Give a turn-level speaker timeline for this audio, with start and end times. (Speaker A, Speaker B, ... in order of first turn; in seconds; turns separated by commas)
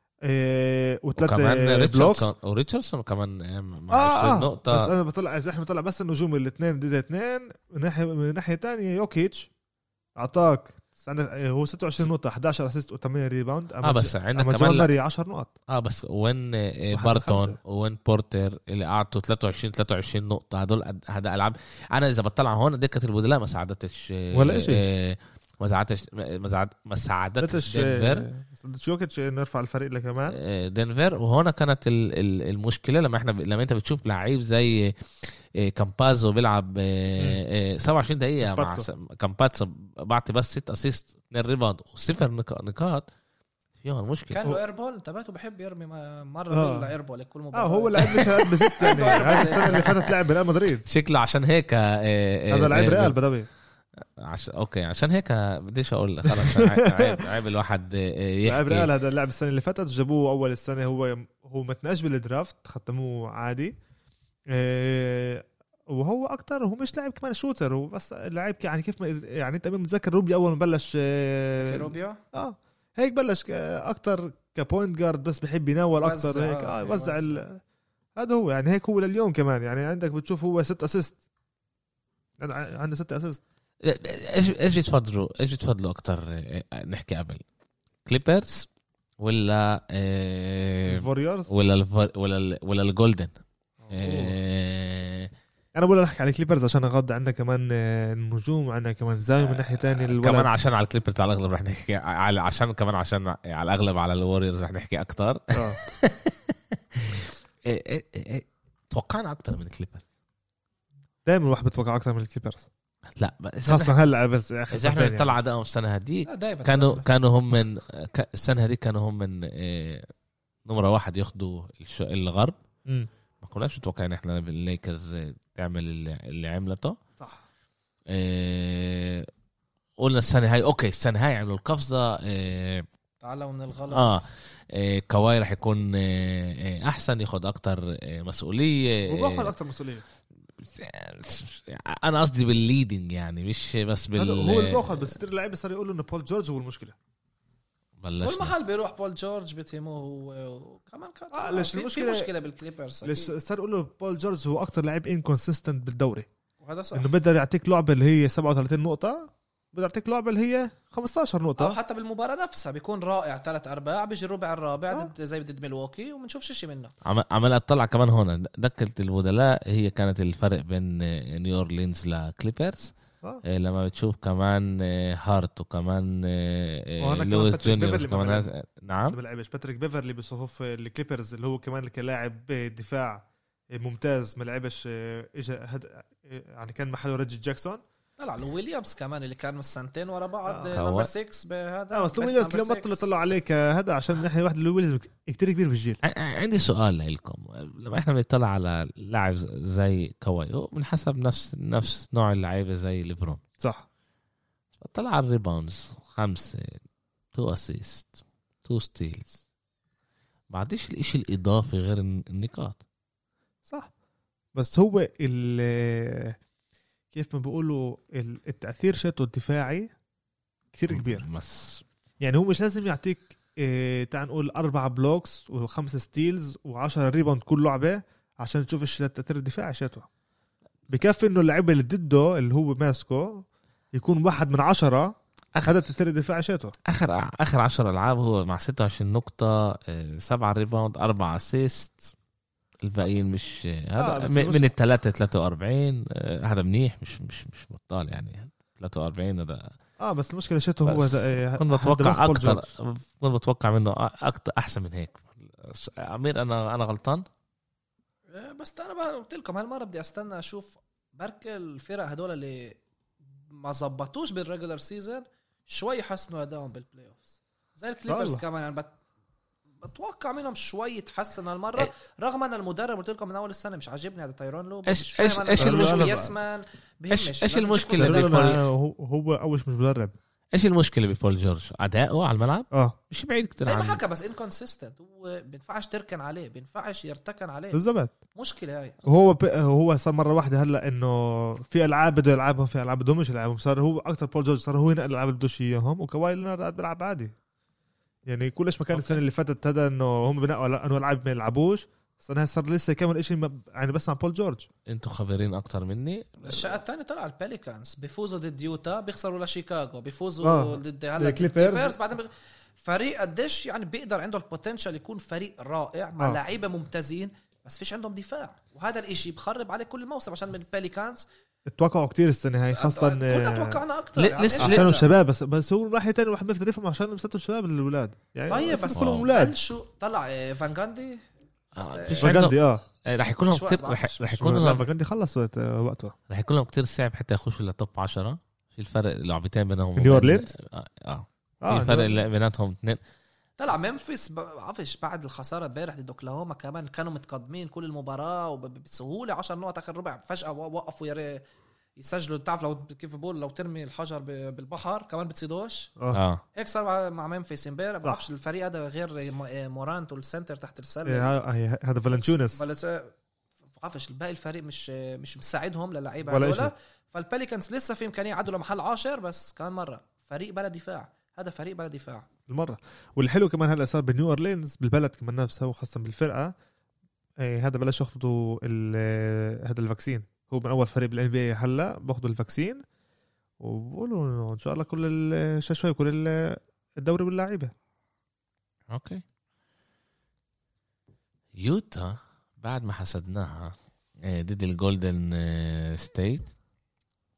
Speaker A: 0.2-2.3, Speaker B: 1.2-4.9, Speaker A: 3.9-9.5, Speaker A: 10.2-15.5, Speaker B: 13.8-14.9, Speaker B: 15.7-28.3, Speaker A: 16.9-17.6, Speaker A: 24.3-24.8, Speaker A: 27.4-30.4, Speaker B: 30.3-43.0, Speaker A: 38.4-38.9, Speaker B: 43.8-44.4, Speaker C: 44.3-49.9, Speaker A: 46.5-46.9, Speaker A: 47.5-50.9, Speaker B: 48.0-50.1, Speaker B: 50.9-53.2, Speaker A: 52.5-53.5, Speaker B: 54.2-58.9, Speaker A: 56.2-57.2, Speaker A: 58.4-63.7, Speaker A: 64.5-77.6, Speaker C: 71.6-72.2, Speaker C: 76.0-77.4, Speaker A: 78.2-81.2, Speaker A: 82.4-83.4, Speaker B: 83.8-87.4, Speaker B: 88.0-88.7, Speaker B: 89.2-93.3, Speaker A: 90.9-91.5, Speaker A: 93.8-94.3, Speaker B: 93.9-95.3, Speaker A: 95.7-100.5, Speaker B: 99.4-110.0, Speaker A: 105.5-105.8, Speaker A: 111.2-112.7, Speaker B: 113.2-114.0, Speaker A: 113.7-115.3, Speaker B: 114.7-120.1, Speaker C: 116.2-117.1, Speaker B: 120.7-122.5, Speaker B: 123.4-127.0, Speaker A: 127.2-127.4, Speaker B: 128.1-129.3, Speaker B: 130.0-132.8, Speaker C: 133.2-134.1, Speaker B: 133.9-139.5, Speaker A: 139.1-140.0, Speaker B: 140.6-145.1, Speaker A: 144.2-146.9, Speaker B: 148.0-148.5, Speaker C: 148.2-153.3, Speaker A: 151.3-152.3, Speaker A: 153.0-156.3, Speaker C: 156.6-157.1, Speaker A: 156.9-161.8, Speaker C: 161.6-166.9, Speaker B: 167.0-172.9, Speaker B: 173.4-179.2, Speaker A: 177.0-178.5, Speaker A: 179.1-187.8, Speaker C: 188.2-193.1, Speaker A: 190.5-190.8, Speaker B: 190.7-191.1, Speaker A: 191.9-196.0, Speaker B: 196.0-203.4, Speaker A: 203.6-203.8, Speaker B: 204.8-206.8, Speaker B: 207.3-209.4, Speaker B: 210.5-212.8, Speaker A: 214.5-216.4, Speaker A: 217.1-219.9, Speaker A: 220.7-221.2, Speaker B: 220.9-221.8, Speaker A: 222.2-230.1, Speaker A: 230.9-236.8, Speaker B: 236.9-242.1, Speaker B: 242.8-249.7, Speaker A: 244.0-244.7, Speaker A: 250.0-252.7, Speaker B: 250.8-257.2, Speaker C: 258.3-262.8, Speaker C: 263.5-268.9, Speaker A: 268.1-268.4, Speaker C: 269.8-278.5, Speaker B: 274.9-276.1, Speaker A: 275.6-276.3, Speaker B: 277.1-278.6, Speaker A: 278.0-280.1, Speaker B: 280.5-284.0, Speaker A: 282.7-283.0, Speaker C: 283.6-287.8, Speaker A: 287.7-288.1, Speaker C: 288.3-289.0, Speaker A: 289.0-297.3, Speaker A: 298.3-304.6, Speaker B: 304.9-306.8, Speaker C: 306.4-312.3, Speaker A: 310.4-311.9, Speaker C: 312.8-321.2, Speaker A: 321.7-323.8, Speaker C: 322.7-325.1, Speaker B: 324.2-324.8, Speaker A: 324.6-329.5, Speaker C: 328.5-331.2, Speaker B: 328.9-329.3, Speaker B: 331.7-334.9, Speaker C: 331.8-332.4, Speaker A: 332.2-332.8, Speaker C: 333.5-334.7, Speaker A: 334.4-336.1, Speaker B: 336.3-343.0, Speaker A: 340.0-340.5, Speaker A: 341.6-342.2, Speaker C: 343.6-351.4, Speaker C: 352.0-355.9, Speaker B: 356.1-356.4, Speaker C: 356.5-361.3, Speaker A: 361.1-362.6, Speaker C: 362.1-363.1, Speaker C: 363.8-372.3, Speaker A: 366.2-366.7, Speaker A: 372.5-376.5, Speaker A: 377.4-382.8, Speaker A: 383.6-387.7, Speaker B: 388.9-389.2, Speaker B: 391.5-396.5